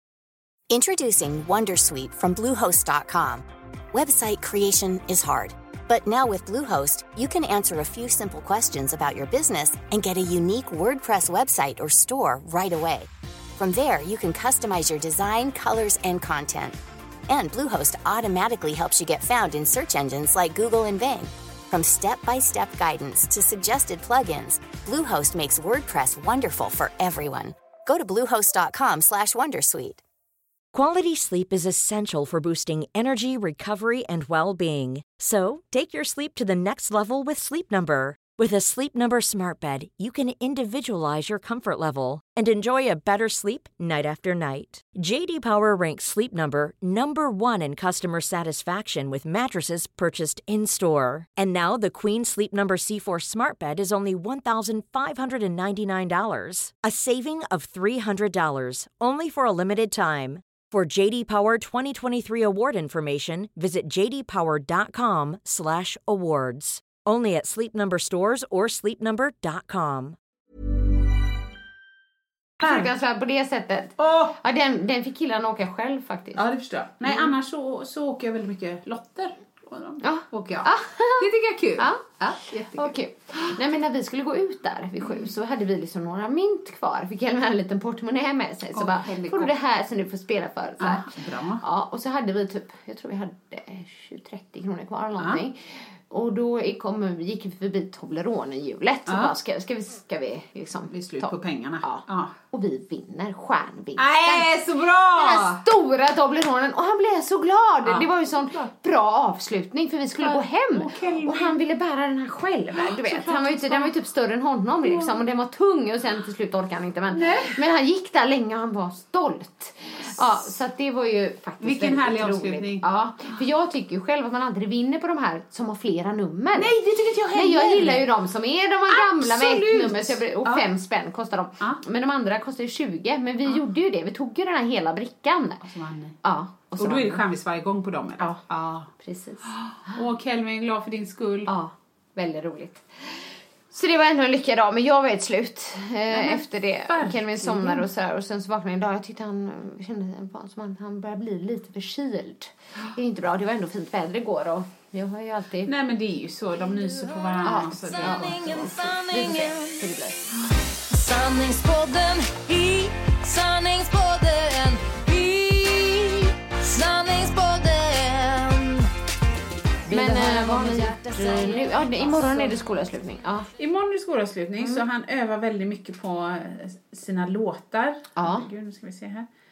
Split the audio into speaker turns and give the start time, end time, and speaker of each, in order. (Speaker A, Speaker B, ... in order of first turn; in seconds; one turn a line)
Speaker A: 0.7-30.0
Speaker B: 30.7-70.2
Speaker C: 72.6-76.4
Speaker D: 72.6-72.9
Speaker D: 74.0-74.4
Speaker D: 76.3-82.9
Speaker C: 80.0-81.3
Speaker C: 81.8-91.1
Speaker D: 88.7-89.5
Speaker D: 90.8-91.6
Speaker C: 91.6-104.5
Speaker D: 99.1-99.3
Speaker D: 100.9-102.3
Speaker D: 104.0-105.6
Speaker C: 105.1-126.7
Speaker D: 107.8-108.7
Speaker D: 110.2-111.6
Speaker D: 112.7-113.9
Speaker D: 114.8-115.2
Speaker D: 117.1-117.6
Speaker D: 120.0-120.4
Speaker D: 121.6-122.8
Speaker D: 126.5-128.1
Speaker C: 127.3-135.6
Speaker D: 128.9-130.7
Speaker D: 135.6-136.2
Speaker C: 136.2-137.2
Speaker D: 136.8-138.9
Speaker C: 138.2-139.9
Speaker D: 139.5-141.5
Speaker C: 141.5-155.7
Speaker D: 146.1-147.9
Speaker D: 155.6-158.9
Speaker E: 156.7-159.9
Speaker C: 157.4-160.3
Speaker E: 160.9-168.9
Speaker E: 169.9-172.5
Speaker C: 169.9-173.5
Speaker D: 173.6-179.2
Speaker C: 178.2-178.5